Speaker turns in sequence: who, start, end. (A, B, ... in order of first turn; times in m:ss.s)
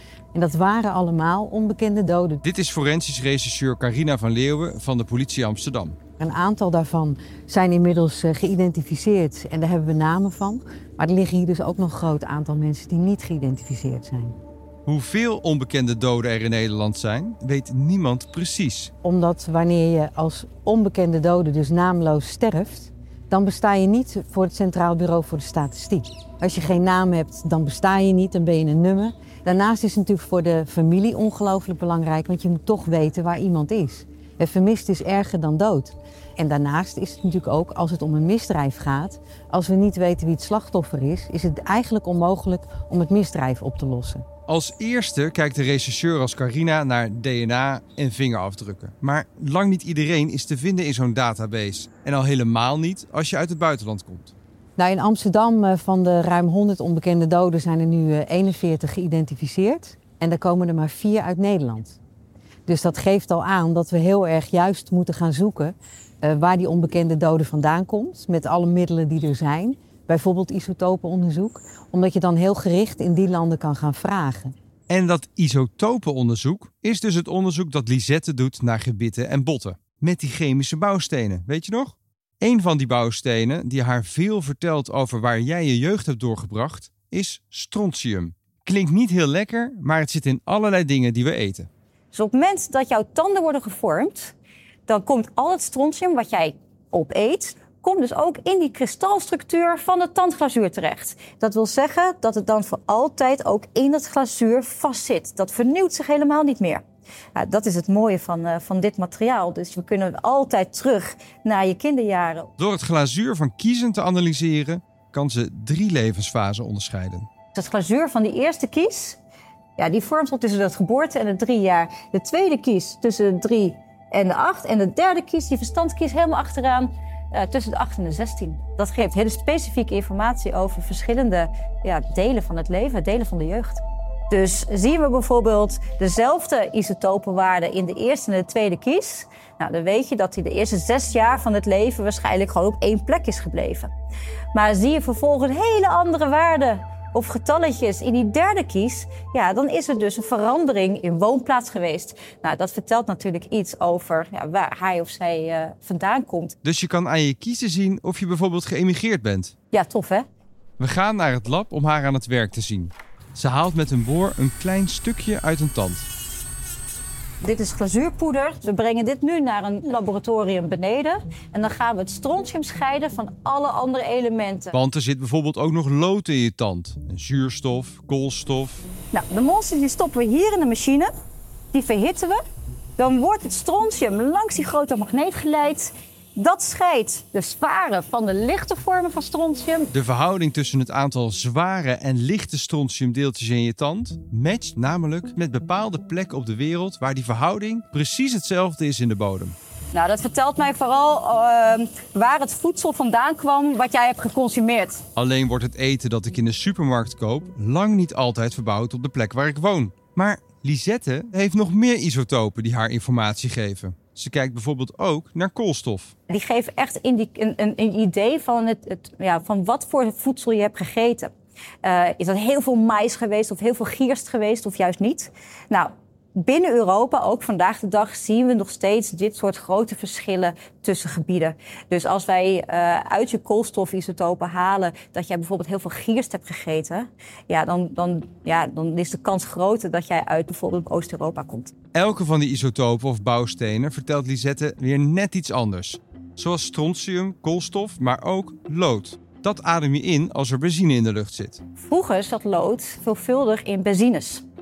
0:00.3-0:02.4 A
0:02.4-0:06.0 B
0:06.2-0:14.4 A
0:14.9-0:18.9 B
0:19.0-0:44.2 A
0:44.5-0:54.3 B
0:54.8-1:02.0 A
1:02.7-1:14.6 A
1:14.9-1:31.7 B
1:32.1-1:34.4 C
1:34.9-1:46.8 C
1:47.4-1:52.5 C
1:52.6-1:57.3 B
1:57.5-1:59.2 C
1:59.8-2:23.9 C
2:24.5-2:36.6 C
2:36.6-2:39.5 B
2:39.7-2:40.2 C
2:40.8-2:46.1 B
2:47.4-2:54.8 C
2:54.7-2:58.8 B
2:59.1-3:01.1 C
3:01.7-3:02.4 C
3:03.0-3:09.9 C
3:09.9-3:19.6 B
3:19.9-3:25.0 C
3:25.2-3:36.1 B
3:36.3-3:41.3 C
3:41.8-4:01.7 C
4:01.9-4:11.6 B
4:11.8-4:14.4 C